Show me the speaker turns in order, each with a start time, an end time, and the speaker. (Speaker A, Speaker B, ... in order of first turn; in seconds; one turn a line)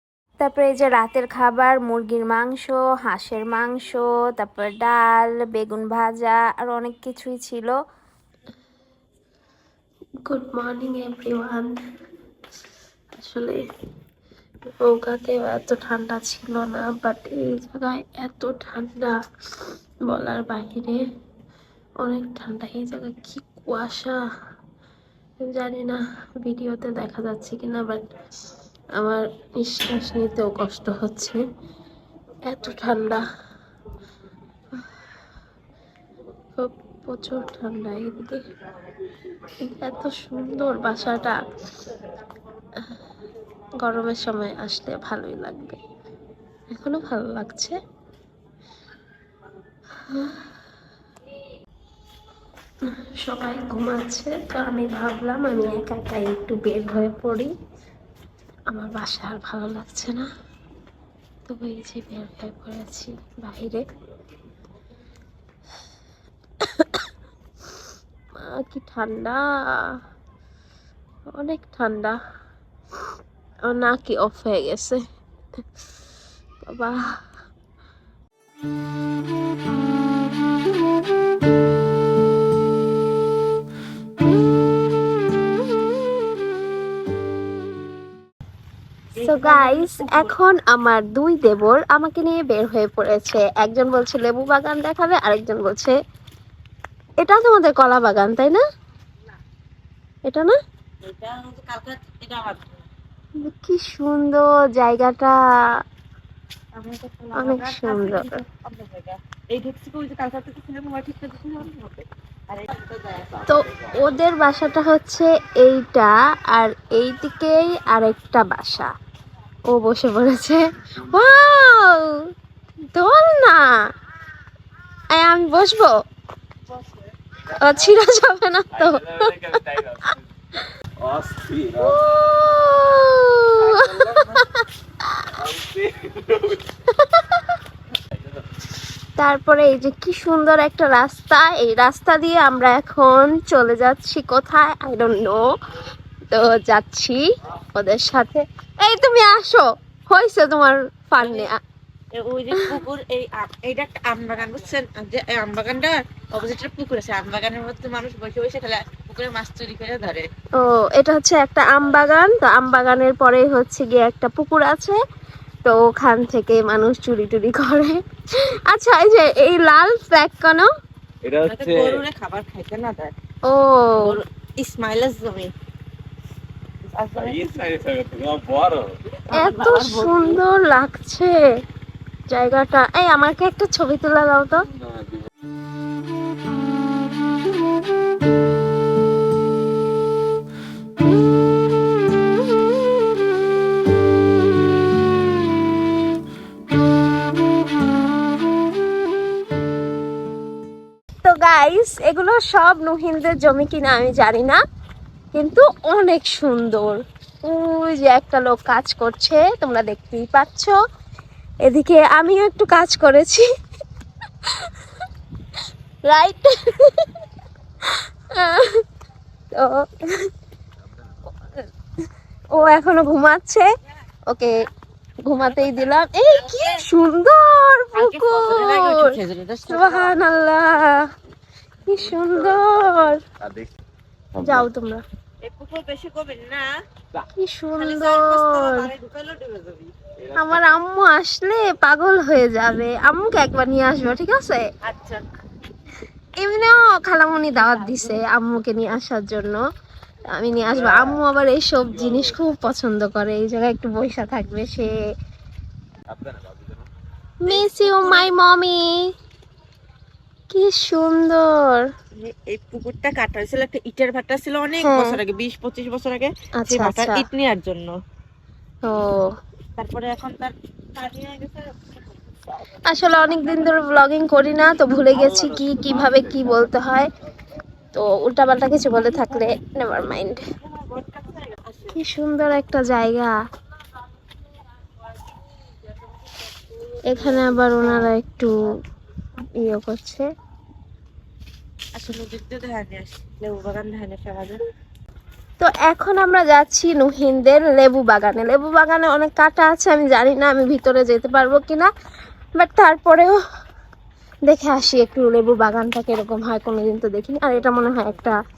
Speaker A: 0.4-7.8
Speaker A: 10.3-11.7
Speaker A: 13.2-13.6
Speaker A: 14.8-19.1
Speaker A: 20.1-21.0
Speaker A: 22.0-24.2
Speaker A: 25.4-28.1
Speaker A: 29.0-31.4
Speaker A: 32.5-33.2
Speaker A: 36.6-38.4
Speaker A: 39.7-41.4
Speaker A: 43.8-45.8
Speaker A: 46.7-47.8
Speaker A: 50.1-50.4
Speaker A: 53.2-57.5
Speaker A: 58.7-60.2
Speaker A: 61.5-63.8
Speaker A: 66.7-67.0
Speaker A: 68.4-69.4
Speaker A: 71.3-72.2
Speaker A: 73.7-75.0
Speaker A: 76.6-77.0
Speaker B: 89.2-90.3
Speaker A: 89.2-96.0
Speaker A: 97.2-98.6
Speaker A: 100.2-100.5
Speaker B: 101.0-102.8
Speaker A: 103.4-105.3
Speaker B: 106.7-113.4
Speaker A: 107.4-108.4
Speaker A: 113.5-118.9
Speaker A: 119.7-122.2
Speaker A: 122.9-123.7
Speaker A: 125.1-126.0
Speaker A: 127.5-130.2
Speaker C: 129.2-130.0
Speaker C: 131.0-131.9
Speaker A: 131.7-134.6
Speaker C: 133.7-134.1
Speaker C: 135.4-136.6
Speaker A: 136.9-137.5
Speaker A: 139.2-145.4
Speaker A: 146.3-147.2
Speaker A: 147.8-151.6
Speaker B: 151.2-151.5
Speaker B: 152.2-160.3
Speaker A: 160.6-165.0
Speaker A: 165.7-170.7
Speaker C: 171.2-172.0
Speaker B: 171.4-173.1
Speaker A: 173.5-174.2
Speaker B: 174.0-175.5
Speaker B: 176.9-177.6
Speaker C: 177.3-178.9
Speaker B: 179.3-180.4
Speaker A: 179.3-181.4
Speaker A: 182.3-184.6
Speaker A: 201.2-204.6
Speaker A: 205.3-210.8
Speaker A: 211.7-213.5
Speaker A: 216.1-217.1
Speaker A: 218.3-218.8
Speaker A: 222.5-223.7
Speaker A: 225.2-231.1
Speaker B: 226.3-226.8
Speaker B: 227.9-230.2
Speaker A: 231.9-233.2
Speaker A: 234.4-235.0
Speaker B: 235.4-236.7
Speaker A: 237.4-238.9
Speaker B: 237.8-239.9
Speaker A: 240.3-244.6
Speaker B: 244.8-245.2
Speaker A: 246.4-249.6
Speaker B: 247.6-248.2
Speaker A: 250.3-254.9
Speaker C: 256.2-256.6
Speaker A: 257.4-258.9
Speaker B: 257.5-258.3
Speaker A: 260.5-261.9
Speaker B: 262.2-268.0
Speaker A: 264.8-265.2
Speaker A: 266.6-267.3
Speaker A: 268.9-269.3
Speaker B: 269.8-272.3
Speaker A: 272.9-277.1
Speaker A: 277.9-280.4
Speaker B: 280.6-282.0
Speaker A: 281.9-283.3
Speaker B: 286.9-288.1
Speaker A: 287.1-288.5
Speaker A: 289.6-290.3
Speaker B: 292.0-294.6
Speaker A: 295.6-301.9
Speaker A: 302.6-303.4
Speaker A: 304.5-308.4